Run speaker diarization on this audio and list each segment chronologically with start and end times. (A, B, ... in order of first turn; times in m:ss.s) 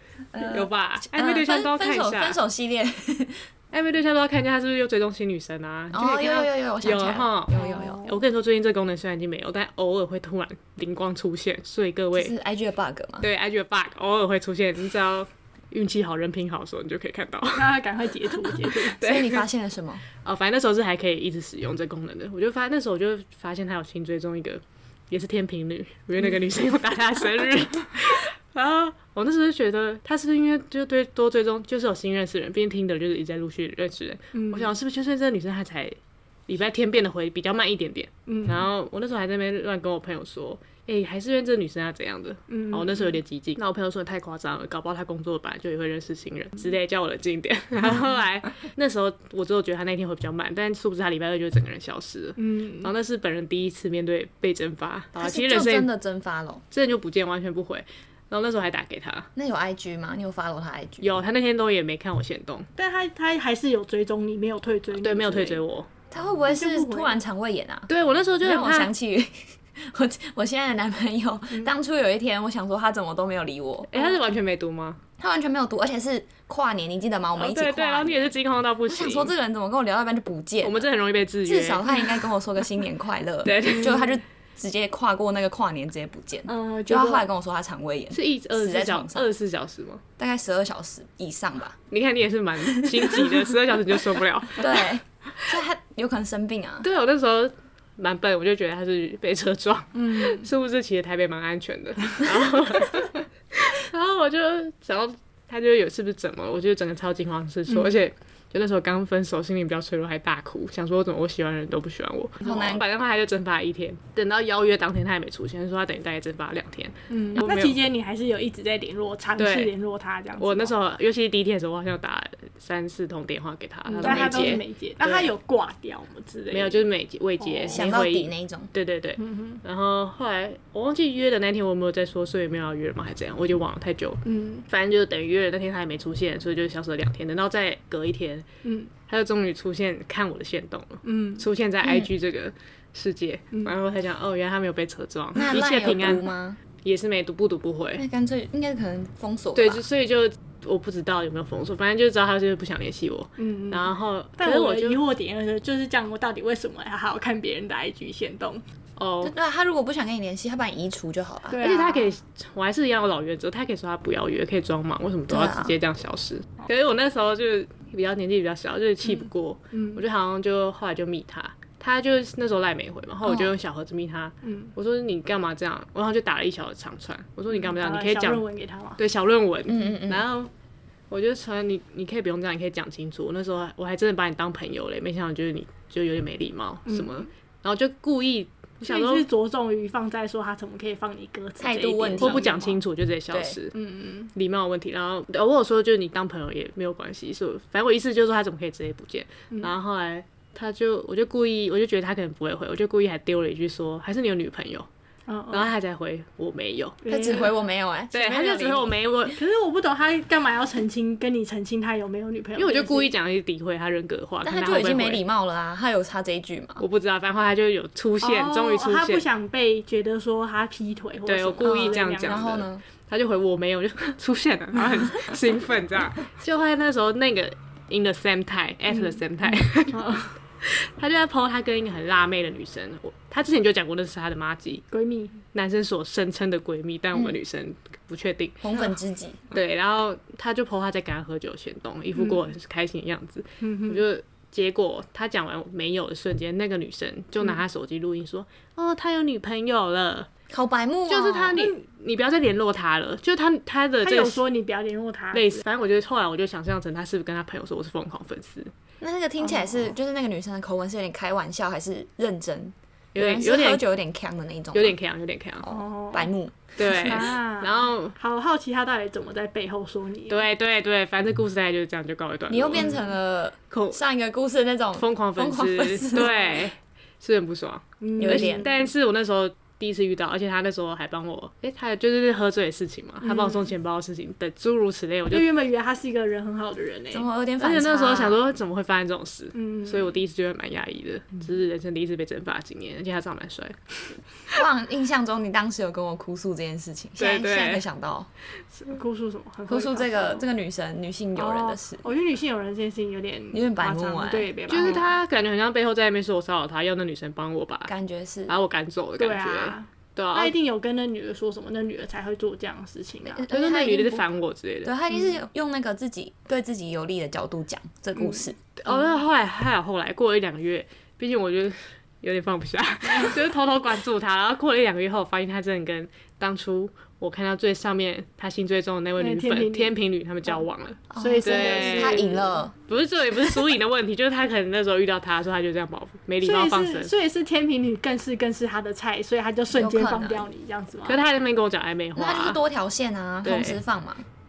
0:00.3-0:03.5 A
0:00.4-0:02.4 B
0:03.7-0:12.3 B
0:05.9-0:08.0 A
0:07.5-0:08.2 C
0:12.1-0:13.3 A
0:13.2-0:17.8 B
0:17.5-0:19.0 C
0:18.9-0:19.4 B
0:19.0-0:20.0 A
0:20.2-0:55.9 B
0:34.3-0:34.7 C
0:38.3-0:38.7 C
0:42.5-0:43.2 C
0:52.4-0:52.9 C
0:55.2-0:56.6 A
0:56.7-0:59.3 B
0:59.4-1:01.2 A
1:01.0-1:02.7 B
1:02.8-1:05.6 C
1:05.0-1:05.9 B
1:06.1-1:13.9 A
1:06.4-1:07.2 C
1:07.9-1:08.9 B
1:11.5-1:11.8 C
1:13.9-1:15.0 B
1:15.2-1:20.9 A
1:17.4-1:19.3 B
1:20.6-1:22.2 B
1:21.4-1:29.3 A
1:23.4-1:24.1 B
1:26.5-1:27.3 C
1:28.1-1:30.0 B
1:30.2-1:31.8 A
1:31.9-1:34.9 B
1:34.6-1:36.9 A
1:36.8-1:57.8 B
1:39.9-1:40.5 C
1:47.7-1:47.9 C
1:52.4-1:52.8 A
1:57.1-2:00.7 C
1:59.4-1:59.7 B
2:00.4-2:05.3 B
2:03.9-2:06.8 C
2:04.0-2:04.6 A
2:06.5-2:18.4 B
2:07.4-2:07.9 C
2:07.7-2:08.7 A
2:09.2-2:09.6 C
2:14.2-2:14.6 C
2:18.6-2:18.9 C
2:19.1-2:26.2 B
2:21.0-2:21.5 C
2:21.8-2:22.1 A
2:25.3-2:26.6 A
2:26.8-2:28.0 B
2:28.0-2:29.8 A
2:29.6-2:35.0 B
2:33.4-2:38.6 C
2:39.0-2:39.3 B
2:39.2-2:41.6 A
2:41.5-2:42.2 C
2:41.6-2:58.4 B
2:45.3-2:45.7 A
2:49.7-2:50.0 C
2:53.2-2:53.5 A
2:54.4-2:54.7 C
2:57.5-2:59.0 C
2:59.0-3:00.5 B
2:59.7-3:00.2 A
3:01.1-3:09.3 B
3:06.8-3:07.2 C
3:08.8-3:12.8 C
3:11.6-3:12.8 A
3:12.2-3:13.8 B
3:13.7-3:14.3 C
3:14.3-3:24.9 B
3:25.3-3:25.7 C
3:25.5-3:27.0 B
3:27.0-3:27.6 C
3:27.1-3:29.0 A
3:28.1-3:29.4 B
3:29.3-3:33.1 C
3:32.6-3:35.2 B
3:34.4-3:36.8 A
3:36.8-3:39.2 B
3:38.2-3:42.5 C
3:41.2-3:54.8 B
3:41.6-3:42.8 A
3:48.9-3:49.2 C
3:49.9-3:50.3 C
3:54.9-3:55.4 C
3:55.5-3:58.7 B
3:58.6-3:59.4 A
3:59.5-4:10.3 B
4:02.2-4:02.4 C
4:03.6-4:04.0 C
4:10.5-4:11.6 A
4:11.1-4:14.4 B
4:14.0-4:15.6 C
4:15.3-4:18.7 B
4:19.0-4:25.0 A
4:19.4-4:19.9 C
4:23.1-4:23.8 B
4:24.7-4:25.7 B
4:25.6-4:27.3 A
4:25.6-4:26.3 C
4:26.8-4:28.2 B
4:27.0-4:30.4 C
4:30.3-4:32.9 B
4:32.5-4:36.6 A
4:33.7-4:34.0 B
4:35.0-4:45.5 B
4:38.0-4:38.8 C
4:38.2-4:38.7 A
4:43.2-4:43.7 C
4:45.3-4:47.3 C
4:47.1-4:48.4 A
4:47.6-4:54.2 B
4:49.5-4:50.1 C
4:54.5-4:58.3 A
4:57.2-4:57.8 B
4:58.9-5:00.4 C
4:59.7-5:02.0 A
5:01.3-5:05.1 C
5:03.5-5:05.0 A
5:04.7-5:07.9 B
5:07.8-5:08.6 A
5:08.5-5:10.5 B
5:09.2-5:13.5 C
5:13.2-5:14.2 A
5:13.5-5:14.9 B
5:14.8-5:18.6 A
5:15.1-5:15.4 C
5:18.2-5:18.5 C
5:18.8-5:37.1 B
5:29.2-5:30.0 C
5:31.1-5:32.7 A
5:31.2-5:32.6 C
5:36.4-5:41.2 C
5:39.7-5:40.5 A
5:41.1-5:42.6 B
5:42.1-5:44.2 A
5:43.4-5:43.8 B